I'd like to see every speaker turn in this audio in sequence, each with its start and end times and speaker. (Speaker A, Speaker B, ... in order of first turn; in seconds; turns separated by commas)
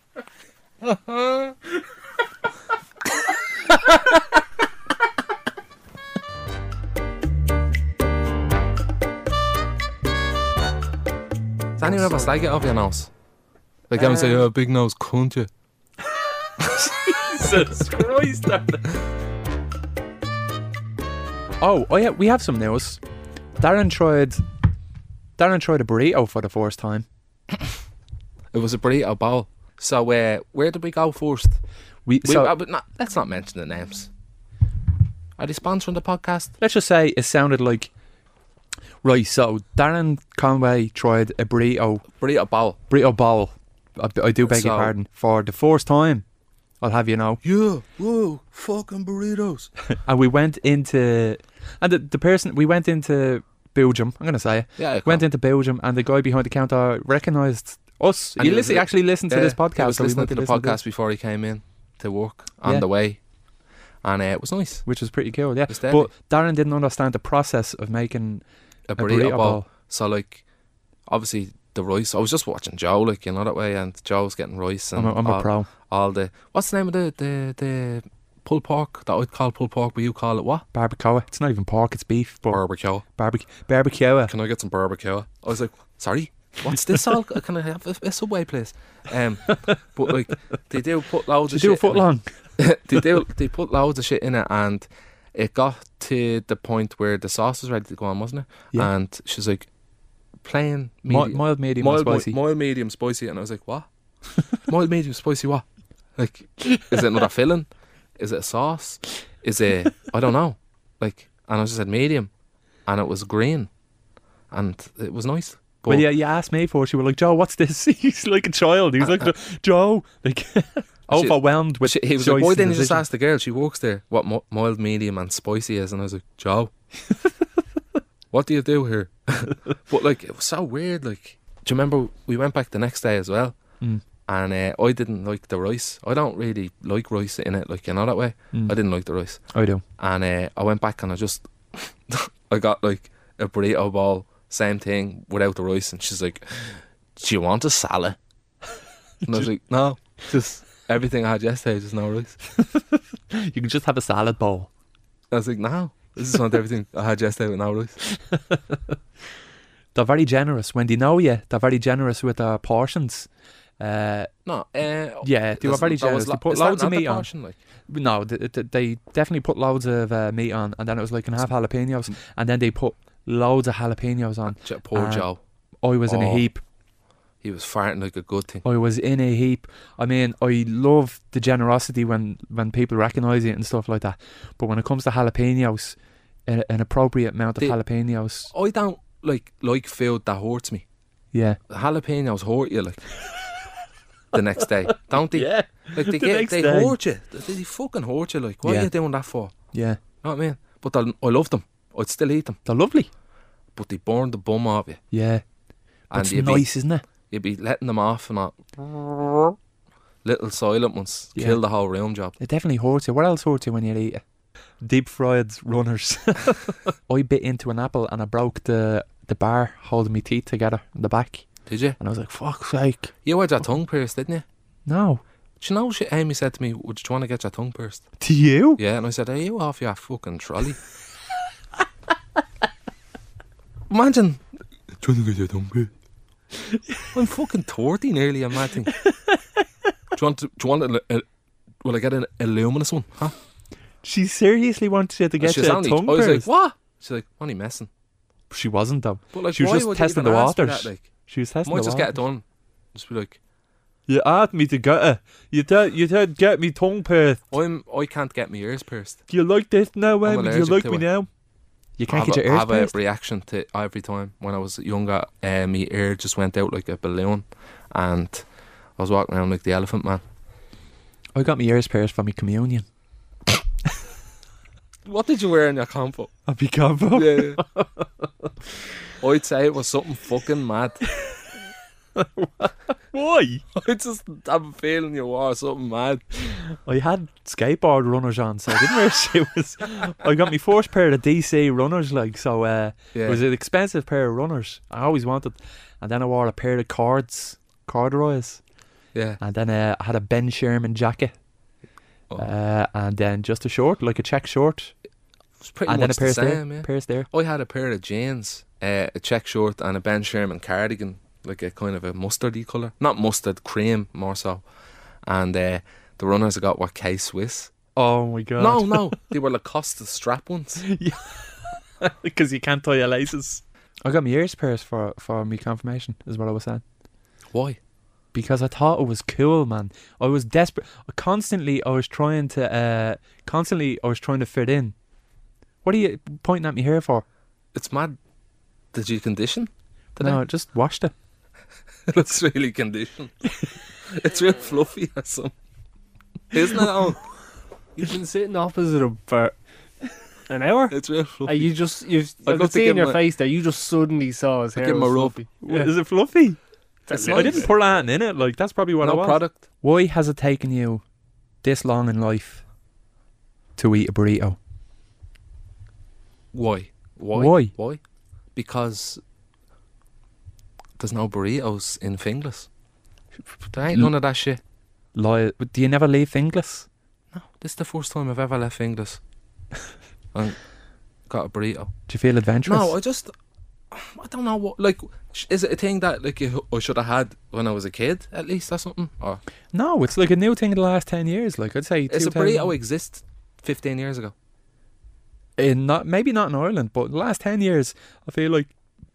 Speaker A: 0.8-1.5, Speaker A: 11.8-13.1, Speaker B: 11.8-12.1, Speaker A: 13.9-15.5, Speaker B: 14.0-14.4, Speaker B: 16.6-18.9, Speaker B: 21.6-23.0, Speaker B: 23.6-24.4, Speaker B: 25.4-27.1, Speaker A: 28.5-31.6, Speaker B: 32.0-32.5, Speaker A: 32.2-34.1, Speaker A: 35.4-36.5, Speaker B: 36.6-37.9, Speaker B: 39.0-42.0, Speaker A: 42.2-42.8, Speaker B: 42.9-46.2, Speaker A: 44.4-44.9, Speaker B: 46.8-47.4, Speaker A: 47.4-49.7, Speaker B: 50.0-60.8, Speaker A: 54.8-55.2, Speaker A: 58.4-63.2, Speaker A: 64.0-64.8, Speaker B: 64.8-68.4, Speaker A: 65.7-66.1, Speaker A: 68.9-70.4, Speaker B: 69.0-69.7, Speaker A: 71.1-80.6, Speaker B: 75.0-75.7, Speaker B: 80.7-82.6, Speaker A: 82.5-83.0, Speaker B: 83.2-84.3, Speaker A: 84.3-92.0, Speaker B: 91.5-92.4, Speaker A: 92.6-99.7, Speaker A: 100.4-103.9, Speaker B: 101.1-102.4, Speaker A: 104.6-105.6, Speaker A: 106.2-112.3, Speaker A: 112.9-113.7, Speaker A: 114.5-116.0, Speaker B: 115.8-123.0, Speaker A: 121.1-126.7, Speaker A: 128.3-133.6, Speaker A: 134.2-139.4, Speaker B: 139.5-139.8, Speaker A: 140.0-148.2, Speaker A: 149.2-152.4, Speaker B: 152.6-154.7, Speaker A: 155.3-158.0, Speaker B: 158.1-158.8, Speaker B: 159.9-164.3, Speaker A: 164.4-167.6, Speaker B: 165.2-167.3, Speaker B: 167.9-175.3, Speaker A: 174.5-175.4, Speaker B: 175.8-176.6, Speaker A: 176.1-176.4, Speaker A: 177.4-178.6, Speaker B: 178.6-185.9, Speaker B: 186.5-188.5, Speaker A: 188.5-190.8, Speaker B: 191.3-191.6, Speaker A: 191.7-193.0, Speaker A: 194.3-199.5, Speaker B: 195.3-196.9, Speaker B: 198.6-198.9, Speaker B: 199.7-200.0, Speaker A: 200.2-202.6, Speaker B: 202.6-203.1, Speaker A: 203.7-205.0, Speaker B: 205.1-205.4, Speaker A: 206.1-206.7, Speaker B: 206.1-207.0, Speaker A: 207.3-209.5, Speaker A: 210.2-212.3, Speaker B: 212.4-214.2, Speaker B: 214.8-223.1, Speaker A: 221.7-222.0, Speaker A: 223.2-224.4, Speaker B: 224.9-225.2, Speaker A: 225.6-228.1, Speaker B: 228.2-228.8, Speaker A: 228.8-230.8, Speaker A: 233.9-234.5, Speaker A: 235.0-235.9, Speaker B: 236.5-237.1, Speaker A: 237.1-238.9, Speaker B: 238.9-239.6, Speaker A: 240.1-241.2, Speaker A: 241.8-243.3, Speaker B: 244.0-246.5, Speaker A: 245.4-247.9, Speaker B: 248.5-252.2, Speaker A: 249.3-251.0, Speaker A: 251.6-253.4, Speaker B: 254.1-257.4, Speaker A: 257.5-259.2, Speaker B: 259.3-261.3, Speaker A: 260.2-261.0, Speaker B: 262.0-262.9, Speaker A: 262.1-268.4, Speaker A: 269.0-270.2, Speaker B: 271.3-272.8, Speaker A: 275.1-276.3, Speaker B: 276.5-278.1, Speaker A: 277.1-277.6, Speaker A: 279.1-281.0, Speaker B: 281.0-281.6, Speaker B: 282.1-283.6, Speaker A: 283.7-286.5, Speaker B: 286.4-298.6, Speaker A: 293.1-293.4, Speaker A: 299.1-299.4, Speaker B: 299.4-301.3, Speaker B: 302.4-304.9, Speaker A: 305.6-314.6, Speaker B: 305.9-307.3, Speaker A: 315.2-317.7, Speaker B: 317.9-319.2, Speaker A: 318.6-320.8, Speaker B: 320.8-326.8, Speaker A: 327.5-327.8, Speaker B: 328.3-334.9, Speaker B: 335.8-337.2, Speaker A: 337.7-338.2, Speaker A: 338.9-340.4, Speaker B: 340.2-341.1, Speaker A: 342.1-345.5, Speaker A: 346.5-347.2, Speaker C: 348.0-349.5, Speaker C: 350.5-355.9, Speaker A: 350.9-351.7, Speaker A: 352.4-353.2, Speaker A: 354.8-355.4, Speaker B: 355.6-356.6, Speaker C: 357.1-357.7, Speaker A: 357.1-357.7, Speaker B: 357.3-361.0, Speaker A: 359.0-359.6, Speaker B: 361.6-362.6, Speaker B: 363.8-364.6, Speaker A: 366.5-368.0, Speaker B: 367.3-367.7, Speaker A: 368.5-369.2, Speaker A: 371.0-372.7, Speaker A: 373.7-374.6, Speaker B: 375.1-376.9, Speaker A: 377.3-379.2, Speaker A: 381.3-381.9, Speaker B: 382.1-382.9, Speaker A: 382.6-383.3, Speaker A: 383.9-389.4, Speaker B: 389.7-392.7, Speaker A: 392.1-394.3, Speaker B: 395.6-398.7